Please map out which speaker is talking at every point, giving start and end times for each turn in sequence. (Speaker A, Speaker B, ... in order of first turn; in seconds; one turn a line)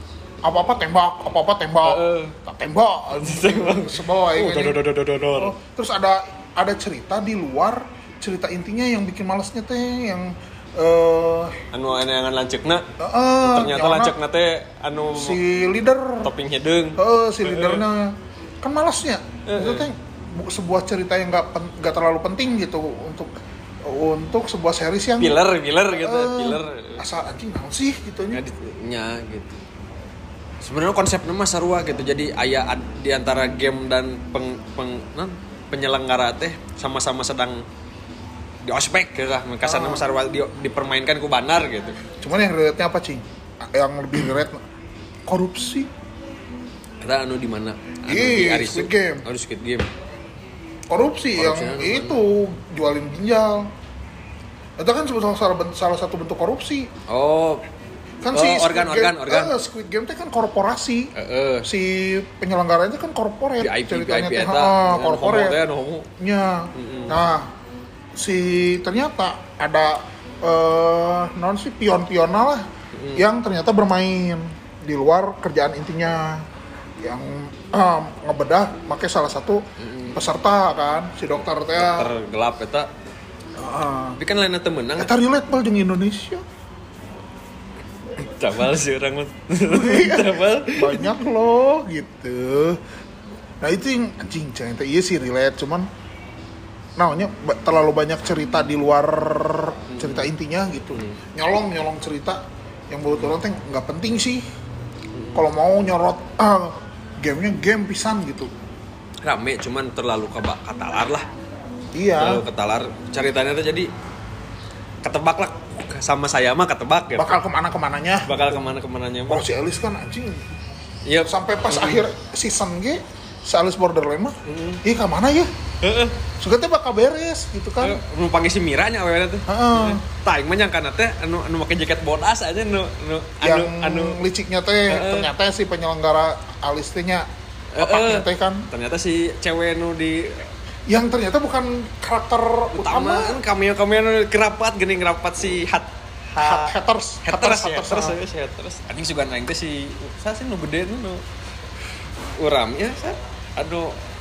Speaker A: 0.4-4.8
Speaker B: 1.8-2.4
Speaker B: 3.1-5.5
Speaker A: 5.3-11.6
Speaker B: 11.7-12.9
Speaker A: 13.0-14.2
Speaker B: 13.4-15.4
Speaker A: 15.1-16.3
Speaker B: 16.2-17.8
Speaker A: 17.0-23.3
Speaker B: 19.5-19.9
Speaker A: 23.8-25.4
Speaker B: 25.2-27.0
Speaker A: 26.0-28.4
Speaker B: 28.3-29.6
Speaker B: 30.6-37.6
Speaker B: 38.6-42.0
Speaker A: 39.6-40.1
Speaker A: 42.1-44.6
Speaker A: 45.3-45.9
Speaker B: 47.0-49.9
Speaker A: 48.1-49.2
Speaker A: 50.9-53.7
Speaker B: 51.4-52.2
Speaker A: 54.8-56.9
Speaker B: 57.1-57.6
Speaker A: 58.2-61.1
Speaker B: 58.3-59.5
Speaker B: 61.1-61.7
Speaker A: 61.6-65.6
Speaker B: 63.6-66.1
Speaker A: 66.2-67.5
Speaker B: 66.7-67.2
Speaker A: 68.2-76.5
Speaker B: 72.9-73.2
Speaker A: 77.0-82.1
Speaker B: 79.8-80.2
Speaker B: 81.8-82.9
Speaker A: 83.6-84.2
Speaker B: 84.2-85.2
Speaker A: 85.0-86.4
Speaker B: 88.2-91.2
Speaker A: 89.7-92.8
Speaker A: 93.6-95.9
Speaker A: 97.0-104.4
Speaker B: 99.9-100.3
Speaker B: 105.1-105.4
Speaker A: 105.3-108.5
Speaker B: 109.2-111.3
Speaker A: 112.0-112.4
Speaker B: 112.2-113.9
Speaker B: 115.0-117.4
Speaker A: 117.2-118.5
Speaker B: 118.3-119.5
Speaker A: 119.3-120.5
Speaker B: 121.0-122.0
Speaker A: 121.3-125.5
Speaker B: 124.5-124.8
Speaker B: 125.8-126.2
Speaker A: 126.4-128.0
Speaker B: 127.8-134.2
Speaker A: 129.5-130.0
Speaker A: 133.4-137.3
Speaker B: 134.9-135.3
Speaker B: 137.7-140.5
Speaker A: 137.8-138.7
Speaker A: 140.9-143.4
Speaker B: 142.7-146.7
Speaker A: 146.4-148.2
Speaker B: 147.2-151.2
Speaker B: 152.4-154.0